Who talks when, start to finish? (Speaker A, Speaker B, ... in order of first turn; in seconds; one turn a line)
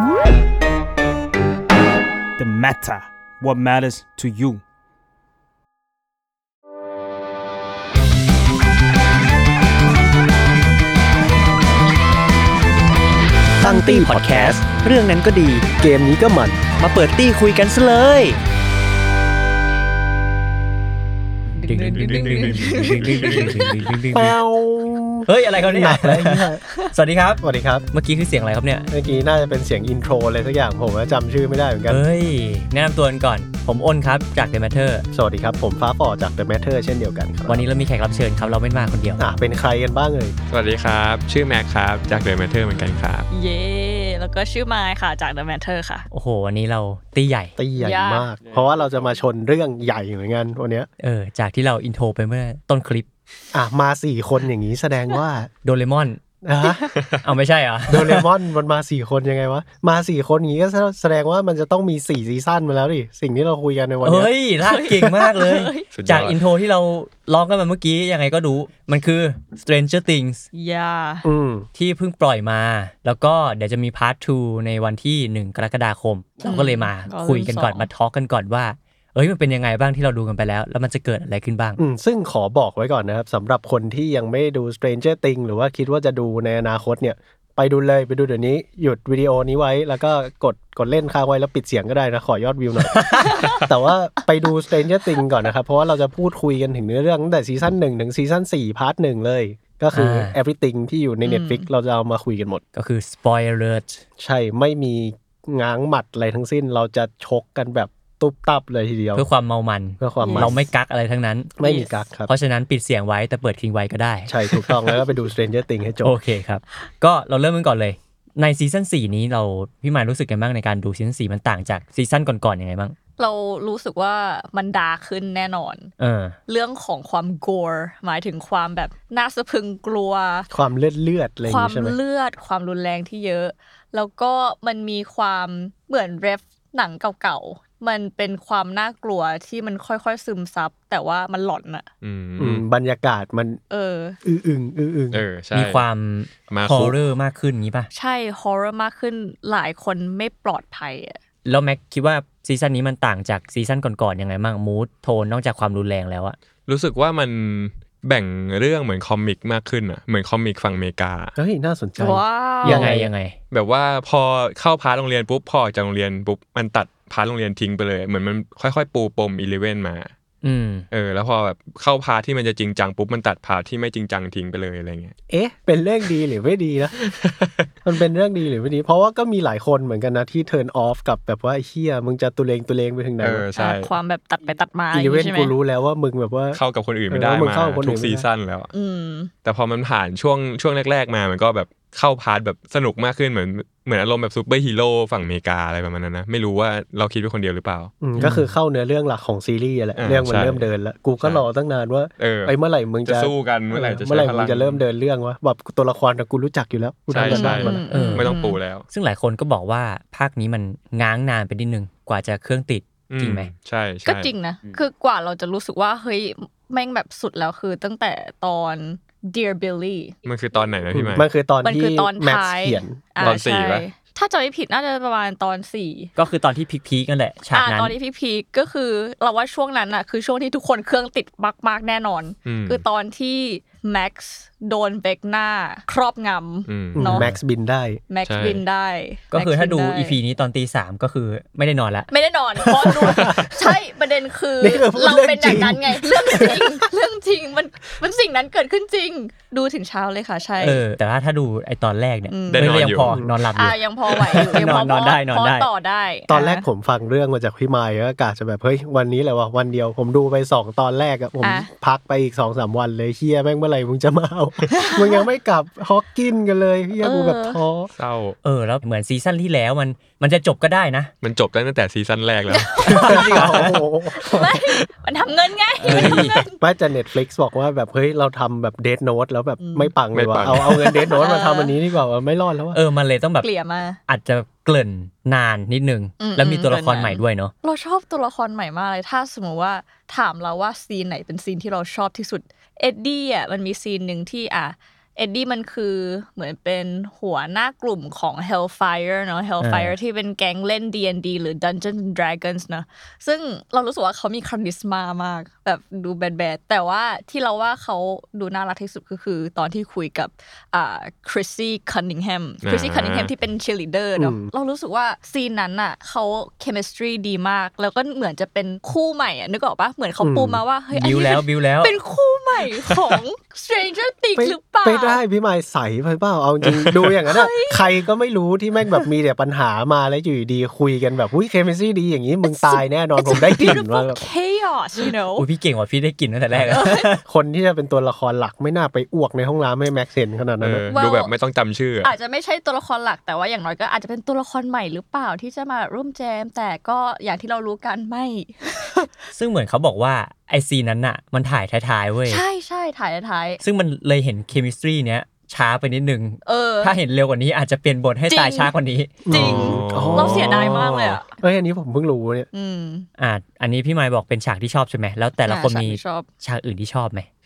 Speaker A: 2.4-4.6
Speaker B: 13.6-14.6
Speaker C: 13.6-15.6
Speaker D: 13.6-15.6
Speaker B: 15.7-16.8
Speaker C: 16.8-18.2
Speaker D: 16.9-18.3
Speaker E: 21.6-23.8
Speaker D: 21.6-24.4
Speaker F: 21.9-23.7
Speaker B: 24.1-26.6
Speaker D: 25.3-28.9
Speaker B: 27.4-27.9
Speaker B: 28.9-32.1
Speaker D: 31.9-35.1
Speaker B: 35.1-37.7
Speaker D: 37.5-39.2
Speaker B: 39.2-40.3
Speaker F: 40.5-43.3
Speaker E: 43.3-46.1
Speaker D: 46.1-47.5
Speaker B: 47.6-50.9
Speaker E: 47.8-48.3
Speaker F: 48.4-49.1
Speaker D: 51.0-53.1
Speaker B: 53.5-55.5
Speaker D: 55.6-56.2
Speaker B: 56.4-56.9
Speaker E: 56.6-56.9
Speaker D: 57.2-58.3
Speaker B: 57.9-64.3
Speaker D: 64.0-70.5
Speaker E: 64.6-65.9
Speaker F: 65.9-66.4
Speaker E: 70.5-71.3
Speaker B: 71.2-71.7
Speaker D: 71.7-81.8
Speaker E: 76.4-77.9
Speaker B: 81.8-102.6
Speaker D: 92.9-93.3
Speaker E: 93.2-93.7
Speaker D: 99.9-100.3
Speaker E: 101.2-101.7
Speaker D: 102.7-104.0
Speaker B: 104.2-109.3
Speaker D: 109.1-114.3
Speaker B: 110.0-110.7
Speaker E: 110.2-110.6
Speaker B: 111.6-112.3
Speaker B: 114.3-116.2
Speaker D: 116.0-123.0
Speaker E: 123.2-125.9
Speaker D: 126.0-126.3
Speaker E: 126.5-130.5
Speaker B: 130.5-132.0
Speaker E: 131.4-141.8
Speaker F: 142.0-142.6
Speaker B: 142.4-143.6
Speaker E: 143.7-144.2
Speaker B: 144.2-145.2
Speaker F: 145.1-145.8
Speaker D: 145.5-147.9
Speaker F: 146.5-147.0
Speaker E: 147.9-151.2
Speaker D: 151.4-156.4
Speaker F: 156.7-161.3
Speaker B: 161.3-163.1
Speaker E: 162.0-162.9
Speaker D: 162.6-163.3
Speaker F: 163.5-170.1
Speaker D: 170.4-170.8
Speaker F: 170.9-175.1
Speaker B: 175.3-176.9
Speaker F: 177.1-177.7
Speaker B: 177.8-183.4
Speaker F: 183.2-183.9
Speaker E: 183.6-185.5
Speaker B: 184.9-188.2
Speaker F: 186.5-188.7
Speaker E: 188.7-189.3
Speaker F: 189.4-197.9
Speaker B: 198.0-207.8
Speaker D: 198.2-198.5
Speaker F: 200.0-200.7
Speaker F: 202.2-204.8
Speaker F: 207.1-208.9
Speaker E: 207.3-208.6
Speaker D: 207.9-208.3
Speaker D: 208.9-213.5
Speaker F: 213.1-214.3
Speaker E: 214.1-220.6
Speaker F: 220.2-221.3
Speaker B: 220.9-223.0
Speaker E: 221.6-226.1
Speaker F: 223.2-223.8
Speaker D: 226.2-227.9
Speaker E: 227.5-237.3
Speaker F: 232.4-232.8
Speaker F: 236.7-237.1
Speaker B: 236.9-238.0
Speaker E: 238.1-240.2
Speaker F: 238.2-238.6
Speaker D: 239.3-243.2
Speaker E: 242.1-250.8
Speaker B: 244.6-246.8
Speaker D: 250.6-255.7
Speaker E: 252.3-252.7
Speaker F: 252.5-253.2
Speaker B: 253.0-253.4
Speaker E: 253.5-256.6
Speaker B: 256.3-267.9
Speaker E: 261.4-261.7
Speaker E: 264.7-265.2
Speaker E: 267.0-267.6
Speaker F: 268.0-268.4
Speaker D: 268.4-271.1
Speaker F: 271.2-273.7
Speaker E: 272.5-273.3
Speaker D: 272.9-273.8
Speaker B: 272.9-274.6
Speaker E: 274.2-276.6
Speaker D: 275.8-276.4
Speaker B: 276.6-282.8
Speaker E: 279.6-279.9
Speaker F: 280.1-281.0
Speaker E: 281.0-281.7
Speaker D: 282.7-283.5
Speaker E: 283.4-284.0
Speaker D: 284.1-287.5
Speaker E: 286.2-325.2
Speaker D: 299.6-299.9
Speaker F: 312.6-313.3
Speaker B: 314.2-314.5
Speaker B: 320.2-320.6
Speaker D: 320.9-321.9
Speaker B: 324.4-334.2
Speaker F: 326.6-327.1
Speaker E: 327.3-327.8
Speaker E: 332.5-335.5
Speaker D: 335.4-337.2
Speaker E: 336.7-337.1
Speaker B: 337.2-340.9
Speaker F: 340.6-342.1
Speaker E: 340.9-341.3
Speaker E: 342.0-349.1
Speaker D: 349.3-352.4
Speaker E: 352.3-353.6
Speaker D: 353.6-359.2
Speaker E: 356.4-356.9
Speaker E: 358.3-358.7
Speaker B: 359.2-362.5
Speaker E: 359.3-361.4
Speaker F: 359.3-360.8
Speaker E: 362.5-363.1
Speaker D: 363.2-367.3
Speaker E: 365.4-366.3